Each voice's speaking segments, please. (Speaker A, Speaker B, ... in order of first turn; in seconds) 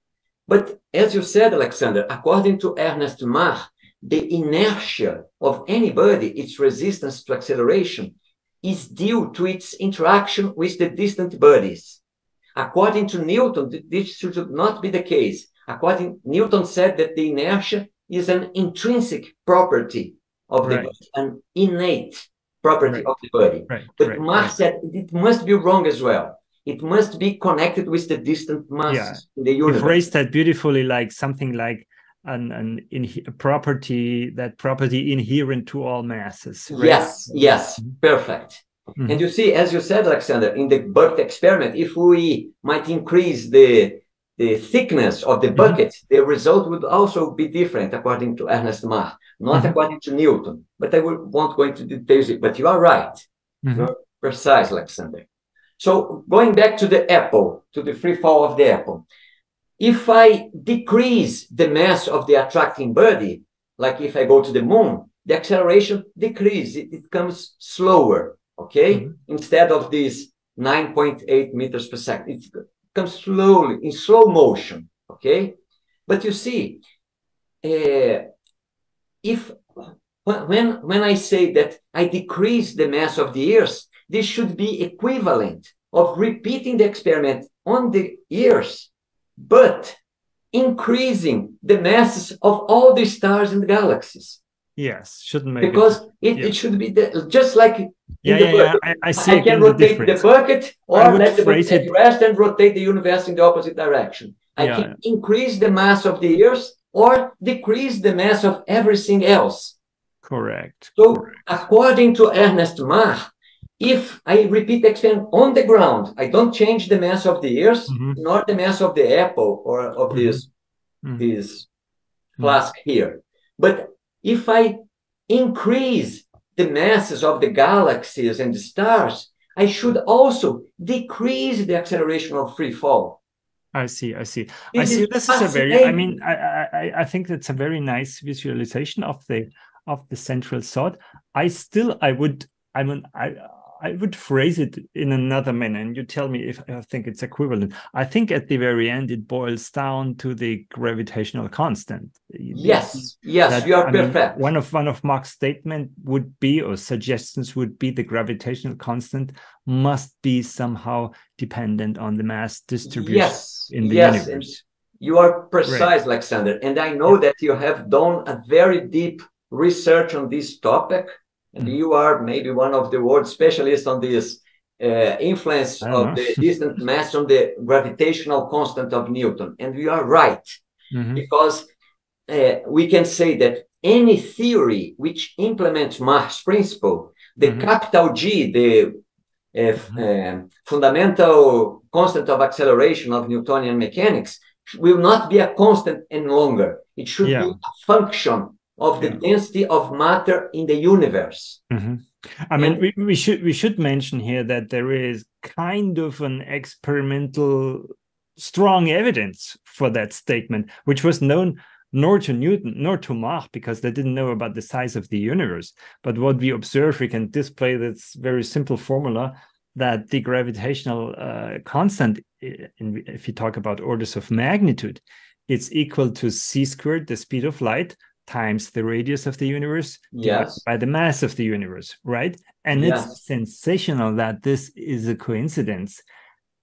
Speaker A: 0.5-12.0, 12.6-30.0, 36.7-55.3, 55.8-59.0, 59.8-76.8, 77.6-78.3, 79.2-90.0, 90.5-94.4, 95.6-109.8, 111.0-113.3, 113.8-120.5, 121.2-121.7, 122.4-133.2, 134.7-136.2, 152.5-154.4, 162.8-180.6, 181.2-181.7, 182.3-189.0, 189.5-201.6, 230.1-230.6, 232.8-233.2
Speaker B: 20.6-20.9, 23.7-24.6, 28.9-37.9, 39.0-39.2, 45.5-45.8, 53.6-53.9, 94.8-96.5, 98.2-100.2, 100.9-101.9, 104.6-105.0, 110.2-111.6, 117.9-118.2, 120.1-120.4, 133.7-164.6, 175.8-176.4, 180.9-181.2, 187.4-187.7, 197.2-197.6, 201.7-236.0